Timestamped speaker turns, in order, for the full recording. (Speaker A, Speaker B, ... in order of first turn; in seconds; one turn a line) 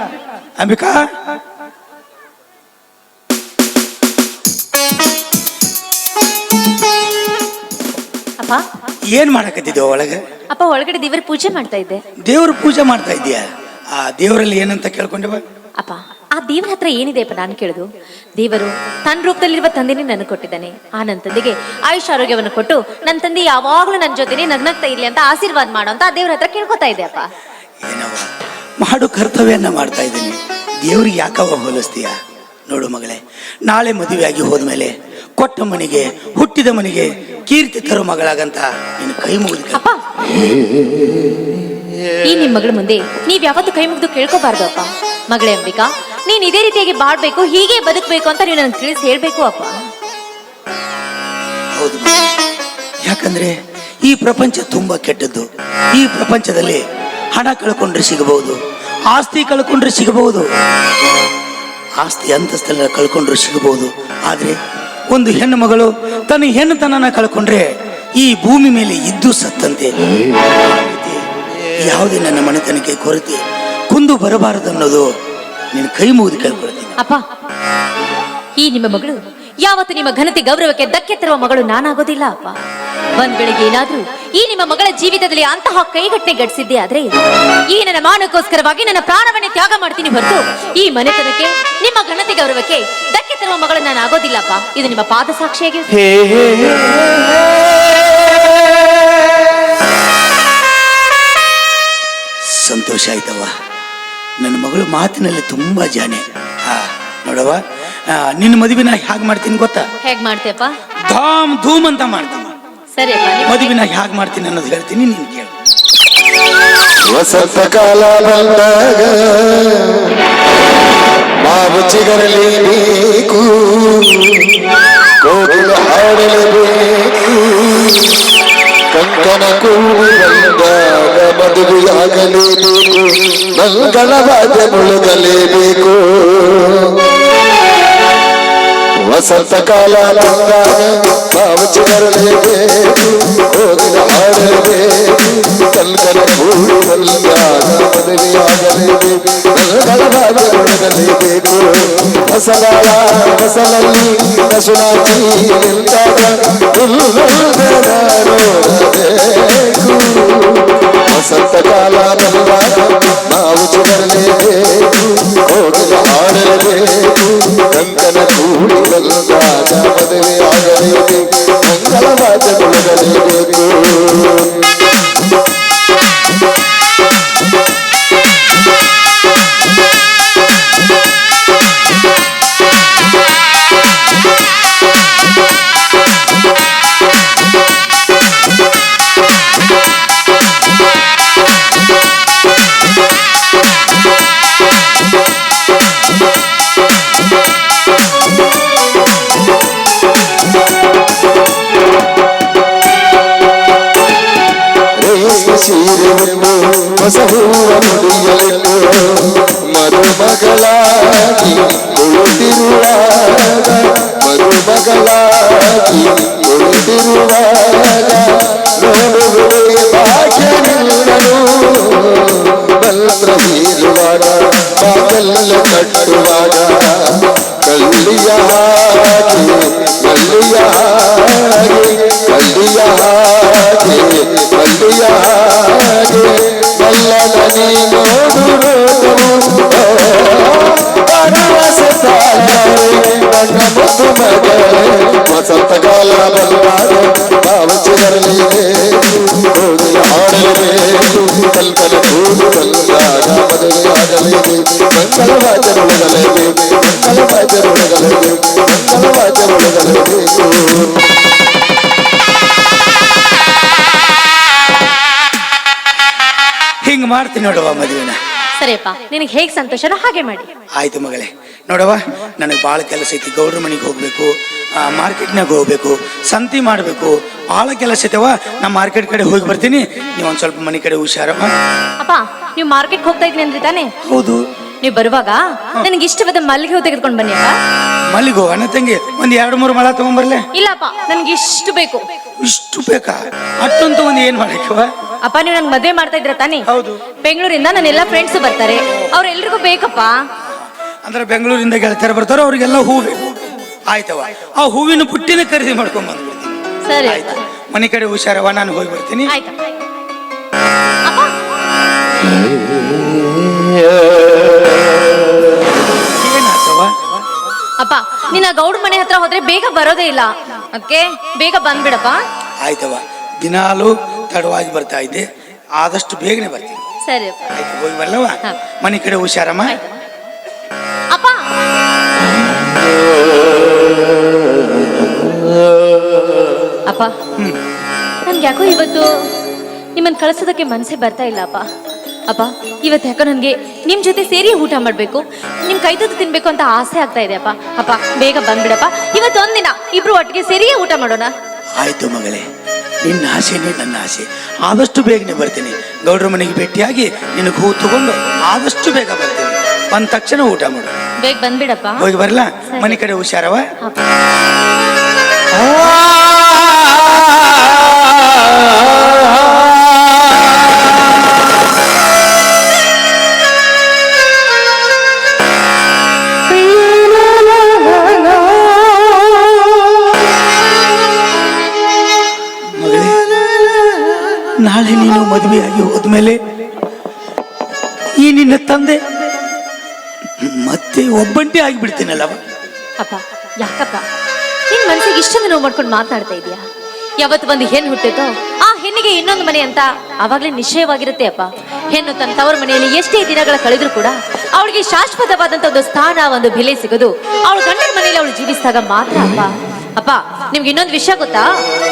Speaker A: 0.6-1.0
Speaker A: 9.1-10.2
Speaker B: 10.5-12.0
Speaker A: 12.2-13.4
Speaker A: 14.0-15.4
Speaker B: 15.8-17.8
Speaker B: 18.4-27.3
Speaker A: 27.8-28.3
Speaker A: 28.8-32.1
Speaker A: 32.7-39.8
Speaker B: 42.2-49.7
Speaker A: 51.8-52.4
Speaker A: 53.0-56.8
Speaker A: 57.3-58.6
Speaker A: 59.1-60.5
Speaker A: 62.0-64.6
Speaker A: 65.1-67.7
Speaker A: 68.2-69.9
Speaker A: 70.5-73.4
Speaker A: 73.9-75.0
Speaker A: 75.7-77.0
Speaker B: 77.0-77.2
Speaker B: 78.6-82.5
Speaker B: 83.2-87.1
Speaker B: 87.7-96.0
Speaker A: 102.5-103.5
Speaker A: 104.4-109.8
Speaker B: 110.0-110.8
Speaker A: 111.1-112.5
Speaker B: 112.9-113.7
Speaker A: 113.5-115.5
Speaker C: 117.1-120.1
Speaker C: 121.4-124.3
Speaker C: 125.2-127.8
Speaker C: 128.9-136.8
Speaker C: 139.0-174.5
Speaker C: 205.0-261.0
Speaker A: 266.8-268.1
Speaker B: 268.6-270.5
Speaker A: 270.8-281.5
Speaker B: 282.0-283.9
Speaker A: 284.0-284.4
Speaker B: 284.8-287.6
Speaker A: 288.1-290.4
Speaker B: 290.5-292.0
Speaker A: 292.4-294.9
Speaker B: 295.2-296.6
Speaker A: 296.7-297.0
Speaker B: 297.2-300.1
Speaker A: 301.0-309.3
Speaker B: 306.8-307.4
Speaker B: 309.3-309.6
Speaker A: 315.8-317.2
Speaker B: 317.8-322.2
Speaker A: 322.6-325.2
Speaker A: 325.8-326.8
Speaker B: 327.1-327.4
Speaker A: 327.5-329.8
Speaker B: 329.7-330.0
Speaker B: 331.1-331.4
Speaker B: 336.9-337.1
Speaker B: 338.2-339.1
Speaker B: 339.9-341.6
Speaker B: 342.3-351.3
Speaker A: 351.8-352.4
Speaker A: 353.0-360.9
Speaker B: 361.2-362.0
Speaker A: 362.0-363.7
Speaker B: 362.7-363.0
Speaker A: 382.8-383.3
Speaker A: 384.3-386.4
Speaker A: 388.1-389.0
Speaker A: 390.4-392.4
Speaker B: 393.0-394.0
Speaker B: 394.7-396.6
Speaker B: 397.2-411.5